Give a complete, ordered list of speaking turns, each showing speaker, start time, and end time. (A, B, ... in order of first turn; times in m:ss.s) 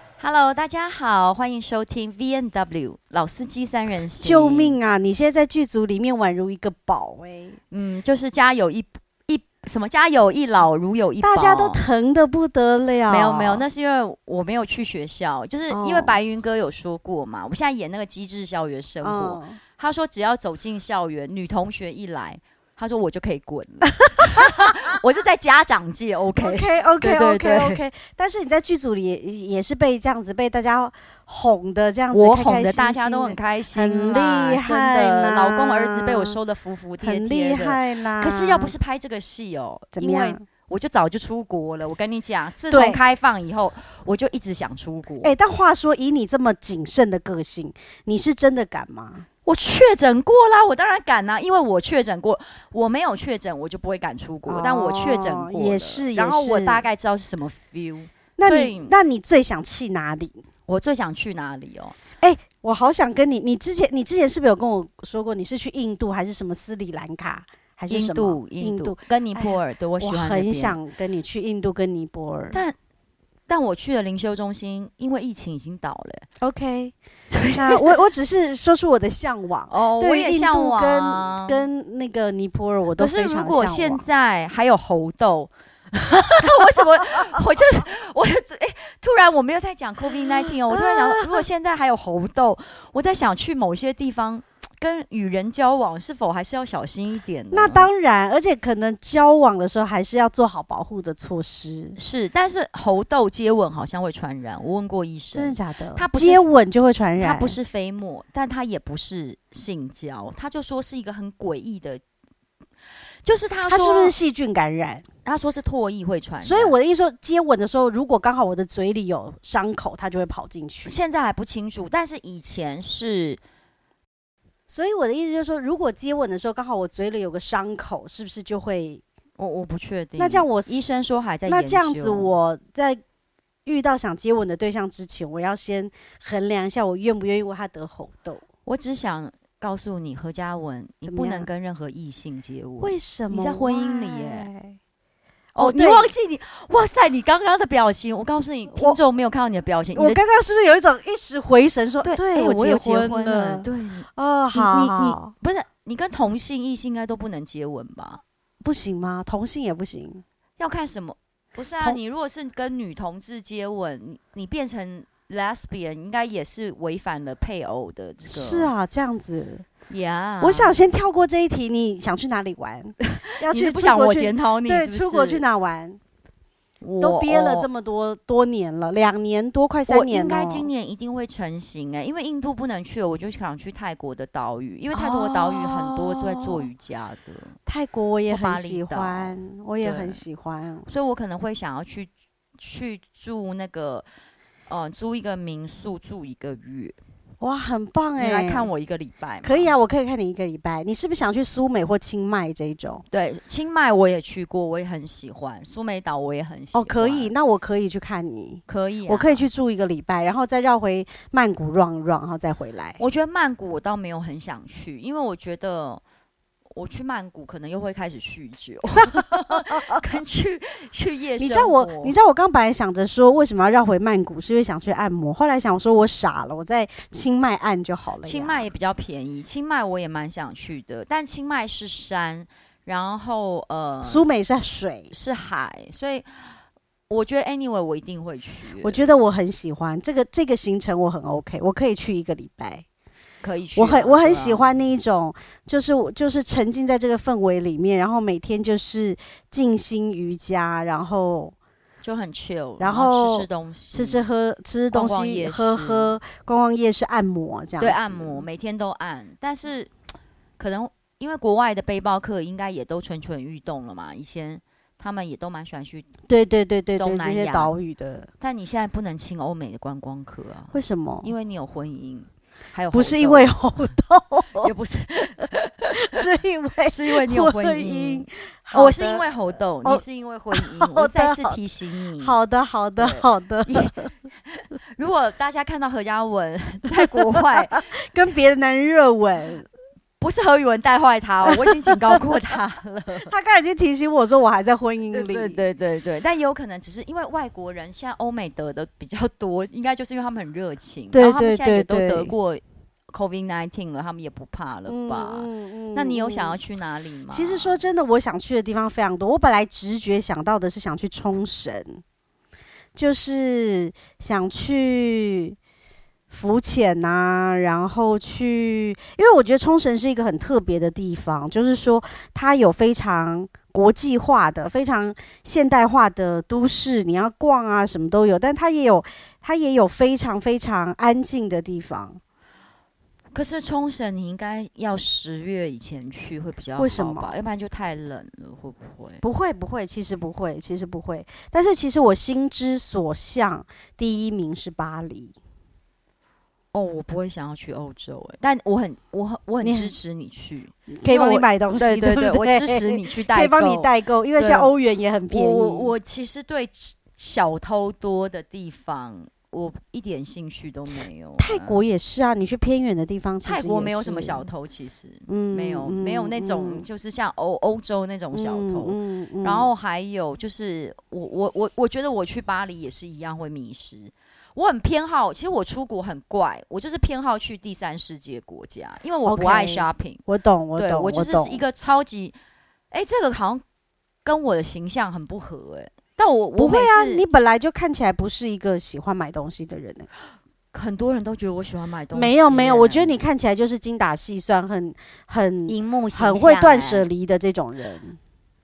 0:00.2-0:04.8 A
0:04.2-0:07.6 B
0:07.7-0:11.8 A
0:11.2-0:13.6 B
0:13.1-0:27.8 A
0:15.7-0:16.2 B
0:19.0-0:19.6 B
0:26.4-0:36.4 B
0:32.1-0:45.4 A
0:37.0-0:38.7 B
0:40.0-0:40.4 B
0:42.7-0:43.0 B
0:45.2-0:49.2 B
0:49.4-0:59.0 A
0:54.5-0:56.8 B
0:58.4-1:00.4 B
1:00.7-1:02.0 A
1:02.2-1:12.6 B
1:07.9-1:10.8 A
1:13.5-1:16.3 A
1:16.4-1:16.9 B
1:17.3-1:18.0 A
1:17.5-1:24.0 B
1:19.7-1:21.7 A
1:23.0-1:37.9 A
1:30.7-1:31.5 B
1:37.5-1:42.0 B
1:42.0-1:46.5 A
1:45.3-1:47.6 B
1:47.2-1:52.0 A
1:53.2-1:54.2 A
1:53.7-1:55.0 B
1:55.2-1:56.8 A
1:56.4-2:01.0 B
2:00.8-2:03.4 A
2:04.7-2:09.0 B
2:09.4-2:12.3 A
2:10.2-2:10.8 B
2:11.4-2:13.0 B
2:13.7-2:18.4 B
2:18.6-2:24.5 A
2:21.0-2:21.5 B
2:22.8-2:24.8 B
2:25.6-2:30.2 A
2:25.6-2:26.1 B
2:28.7-2:29.0 B
2:29.9-2:35.3 B
2:32.0-2:38.2 A
2:38.6-2:40.2 B
2:40.6-2:48.7 A
2:48.3-2:49.6 B
2:49.9-2:50.8 A
2:50.4-2:56.0 B
2:53.0-2:55.5 A
2:56.8-2:57.7 A
2:57.0-3:00.7 B
2:59.9-3:07.6 A
3:04.9-3:06.7 B
3:07.7-3:10.9 B
3:08.3-3:10.2 A
3:10.9-3:14.1 A
3:14.7-3:17.0 A
3:17.4-3:18.7 B
3:18.2-3:19.8 A
3:19.4-3:23.0 B
3:23.1-3:27.3 A
3:26.7-3:33.0 B
3:28.7-3:29.5 A
3:33.0-3:36.0 A
3:36.7-3:42.2 A
3:41.4-3:48.7 B
3:48.2-3:54.2 A
3:54.0-3:55.1 B
3:55.1-3:56.6 A
3:57.1-3:59.1 A
3:58.8-4:02.8 B
4:03.4-4:04.7 A
4:03.8-4:11.6 B
4:12.0-4:14.3 A
4:12.8-4:18.5 B
4:14.9-4:16.2 A
4:17.8-4:19.9 A
4:20.6-4:26.1 A
4:26.3-4:28.3 B
4:27.0-4:27.8 A
4:28.4-4:33.6 A
4:30.7-4:31.3 B
4:32.9-4:34.7 B
4:34.6-4:36.2 A
4:36.0-4:39.3 B
4:36.9-4:42.4 A
4:39.8-4:41.6 B
4:42.2-4:44.1 B
4:43.0-4:43.9 A
4:44.5-4:47.9 A
4:47.5-4:49.7 B
4:50.2-4:53.3 A
4:51.4-4:52.2 B
4:53.3-4:55.6 B
4:55.1-5:07.8 A
5:01.1-5:02.3 B
5:04.9-5:06.6 B
5:07.3-5:12.0 B
5:13.0-5:15.6 B
5:16.3-5:32.2 B
5:33.3-5:39.2 A
5:36.8-5:37.3 B
5:39.2-5:45.3 B
5:46.7-5:54.7 A
5:49.6-5:49.9 B
5:50.9-5:55.9 B
5:55.3-6:01.8 A
6:01.4-6:04.5 B
6:03.4-6:20.2 A
6:05.3-6:06.9 B
6:08.3-6:09.7 B
6:19.2-6:21.6 B
6:20.8-6:22.4 A
6:22.9-6:23.6 A
6:24.2-6:27.2 A
6:26.6-6:30.1 B
6:30.7-6:33.2 A
6:32.1-6:38.2 B
6:35.7-6:37.1 A